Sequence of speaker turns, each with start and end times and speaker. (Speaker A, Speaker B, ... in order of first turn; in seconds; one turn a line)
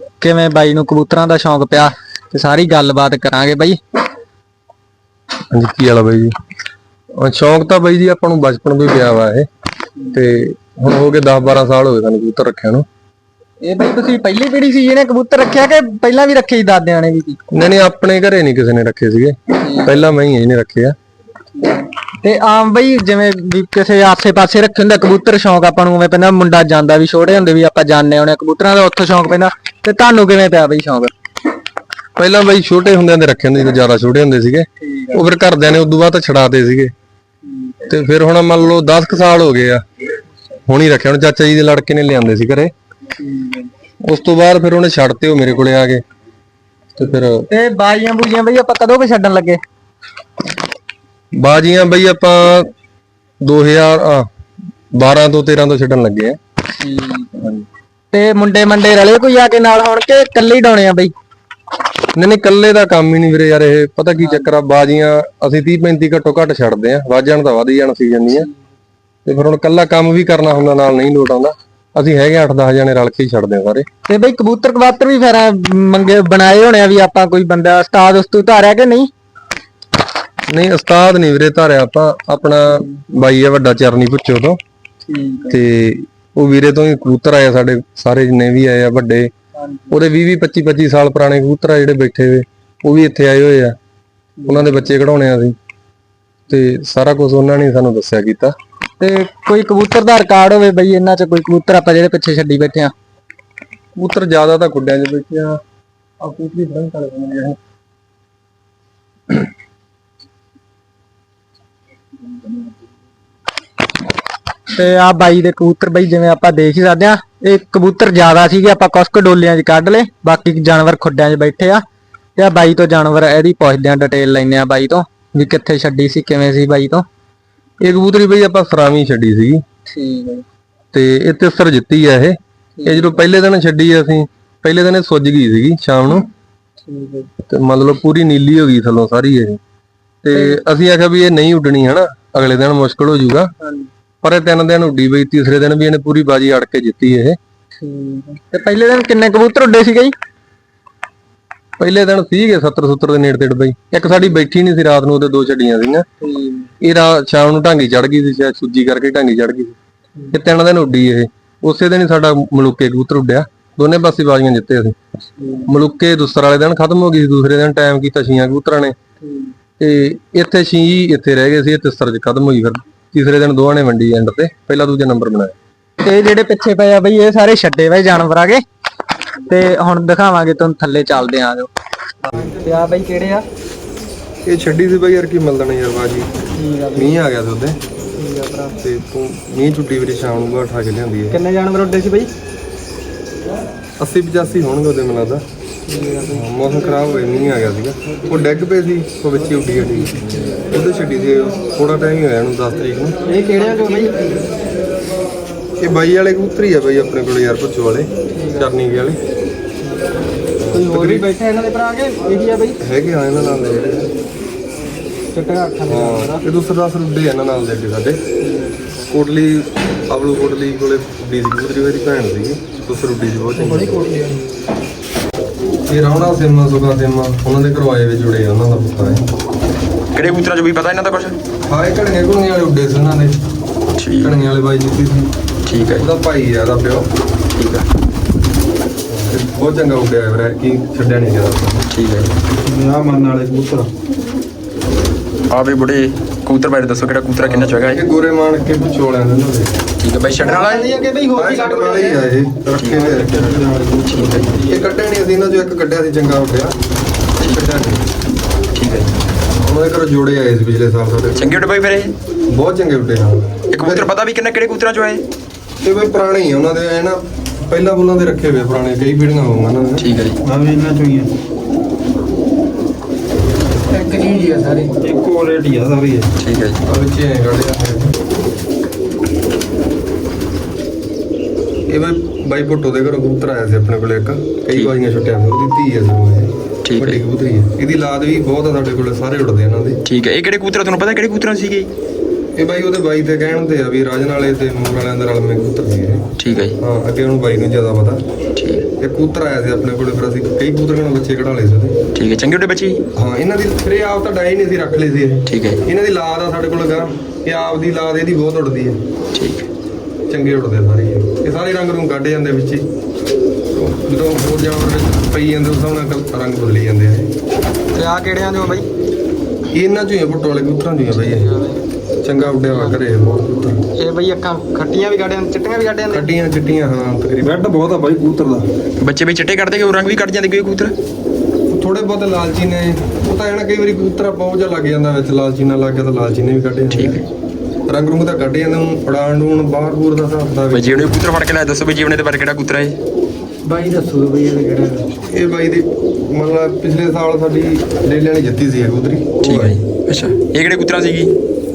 Speaker A: 0.2-3.8
Speaker B: 5.5-6.3
Speaker B: 7.2-9.5
Speaker B: 10.1-12.8
Speaker A: 13.6-17.4
Speaker B: 17.5-20.9
Speaker A: 21.6-31.1
Speaker B: 32.2-36.9
Speaker A: 34.8-35.2
Speaker B: 37.9-39.8
Speaker B: 40.7-42.7
Speaker A: 43.2-43.7
Speaker B: 44.0-46.0
Speaker B: 47.0-47.4
Speaker A: 47.5-49.6
Speaker B: 51.4-52.7
Speaker B: 53.4-54.3
Speaker B: 54.9-56.4
Speaker A: 56.8-57.3
Speaker B: 57.4-57.6
Speaker A: 58.1-61.1
Speaker B: 62.1-68.5
Speaker B: 69.2-73.8
Speaker A: 74.1-79.1
Speaker B: 80.5-84.6
Speaker A: 85.1-85.6
Speaker B: 85.5-89.3
Speaker A: 89.6-89.9
Speaker B: 89.9-93.8
Speaker A: 94.4-94.7
Speaker B: 94.5-95.5
Speaker B: 96.5-98.5
Speaker A: 99.0-102.9
Speaker B: 104.0-105.6
Speaker B: 106.2-107.6
Speaker A: 114.7-121.8
Speaker A: 122.3-127.0
Speaker B: 127.8-129.6
Speaker A: 129.9-130.4
Speaker B: 130.9-136.3
Speaker A: 132.8-133.1
Speaker A: 136.8-137.3
Speaker B: 137.5-139.6
Speaker B: 140.2-143.5
Speaker A: 140.3-140.6
Speaker A: 143.6-143.9
Speaker B: 144.2-147.4
Speaker A: 147.8-150.1
Speaker B: 151.8-156.1
Speaker A: 156.2-156.7
Speaker B: 156.8-159.8
Speaker B: 160.3-164.9
Speaker A: 165.4-165.7
Speaker B: 165.7-168.9
Speaker A: 169.2-169.5
Speaker B: 169.8-175.5
Speaker A: 176.0-178.6
Speaker A: 179.4-181.7
Speaker A: 182.4-183.4
Speaker B: 184.4-186.3
Speaker A: 186.6-187.2
Speaker B: 186.9-187.8
Speaker A: 188.2-188.7
Speaker B: 188.8-191.4
Speaker A: 191.3-192.3
Speaker B: 194.0-195.4
Speaker A: 195.9-196.4
Speaker B: 196.3-203.2
Speaker A: 203.3-204.2
Speaker B: 205.8-209.2
Speaker A: 208.3-208.7
Speaker B: 210.6-211.3
Speaker A: 210.7-212.8
Speaker B: 212.8-214.1
Speaker A: 215.3-216.4
Speaker B: 215.9-218.2
Speaker B: 219.1-224.0
Speaker C: 223.6-224.4
Speaker B: 225.9-229.3
Speaker D: 230.1-231.3
Speaker B: 231.7-233.4
Speaker D: 233.9-234.4
Speaker B: 234.2-235.3
Speaker D: 235.7-236.1
Speaker B: 235.9-237.1
Speaker D: 237.6-237.9
Speaker B: 239.1-241.8
Speaker D: 241.9-242.3
Speaker C: 242.6-243.9
Speaker D: 245.5-248.0
Speaker B: 247.4-249.8
Speaker D: 250.0-250.9
Speaker A: 250.4-252.2
Speaker B: 251.3-253.5
Speaker D: 252.8-253.1
Speaker C: 252.8-254.5
Speaker D: 254.0-254.5
Speaker B: 254.7-256.7
Speaker B: 257.4-258.0
Speaker D: 258.7-259.1
Speaker B: 259.6-261.7
Speaker D: 261.3-262.1
Speaker B: 262.5-264.1
Speaker D: 263.7-265.2
Speaker B: 265.8-270.1
Speaker D: 270.0-270.4
Speaker C: 270.4-271.3
Speaker A: 273.9-275.0
Speaker C: 275.0-276.3
Speaker D: 276.4-276.8
Speaker B: 276.8-278.1
Speaker B: 281.9-290.0
Speaker D: 286.8-287.2
Speaker D: 290.0-291.9
Speaker B: 292.5-298.2
Speaker D: 296.4-296.8
Speaker D: 298.6-298.8
Speaker B: 299.0-302.0
Speaker D: 302.1-303.0
Speaker B: 303.1-309.0
Speaker D: 305.4-305.8
Speaker D: 309.3-309.7
Speaker B: 310.3-312.9
Speaker B: 313.7-317.3
Speaker A: 317.9-318.8
Speaker B: 319.7-321.5
Speaker A: 321.2-321.8
Speaker B: 322.2-323.8
Speaker A: 324.0-326.3
Speaker B: 326.1-327.5
Speaker C: 327.4-328.7
Speaker D: 329.0-330.9
Speaker B: 331.7-337.2
Speaker D: 336.9-337.2
Speaker B: 337.9-341.2
Speaker D: 340.7-343.0
Speaker A: 343.6-345.1
Speaker B: 345.3-349.8
Speaker D: 349.4-351.3